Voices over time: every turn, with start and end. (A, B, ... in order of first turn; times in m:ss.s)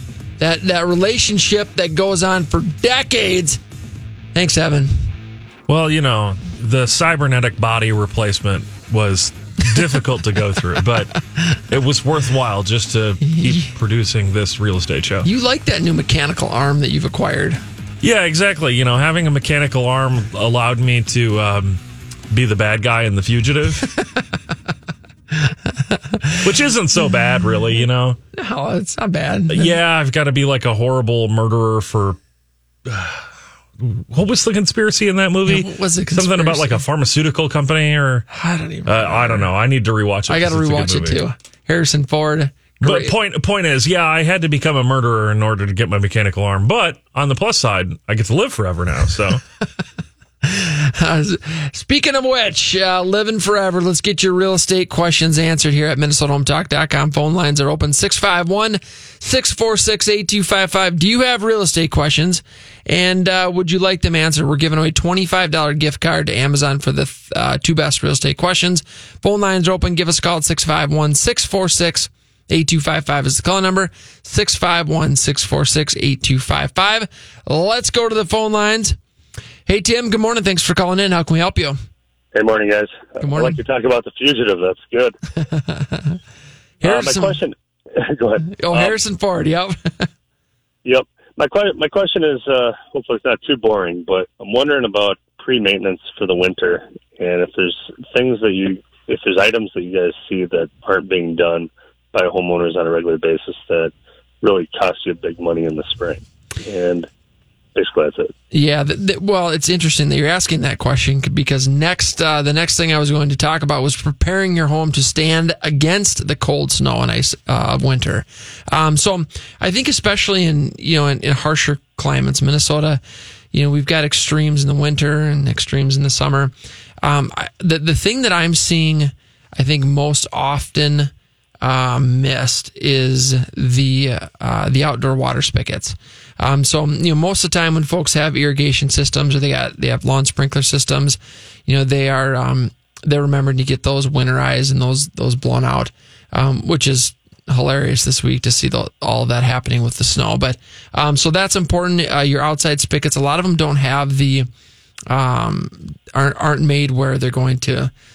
0:00.4-0:03.6 A
0:04.4-0:05.1 A
0:05.7-0:11.2 B
0:11.7-0:15.3 B
0:13.2-0:13.7 A
0:15.2-0:17.6 A
0:18.0-0:21.8 B
0:22.3-0:23.9 B
0:25.5-0:26.4 A
0:26.4-0:28.2 B
0:28.3-0:29.8 A
0:29.5-0:32.2 B
0:32.9-0:33.3 B
0:33.8-0:38.3 B
0:35.4-0:36.8 A
0:38.3-0:39.5 A
0:38.9-0:41.2 B
0:40.3-0:43.1 A
0:42.8-0:49.4 B
0:50.4-1:19.0 A
1:19.7-1:21.8 A
1:22.3-1:25.2 C
1:23.2-1:23.6 A
1:25.4-1:26.2 A
1:26.8-1:27.4 A
1:26.8-1:29.0 C
1:28.5-1:30.1 A
1:30.8-1:47.1 C
1:47.7-1:48.3 C
1:48.5-2:03.0 A
2:03.5-2:11.1 A
2:11.6-2:34.5 A
2:35.1-2:37.9 A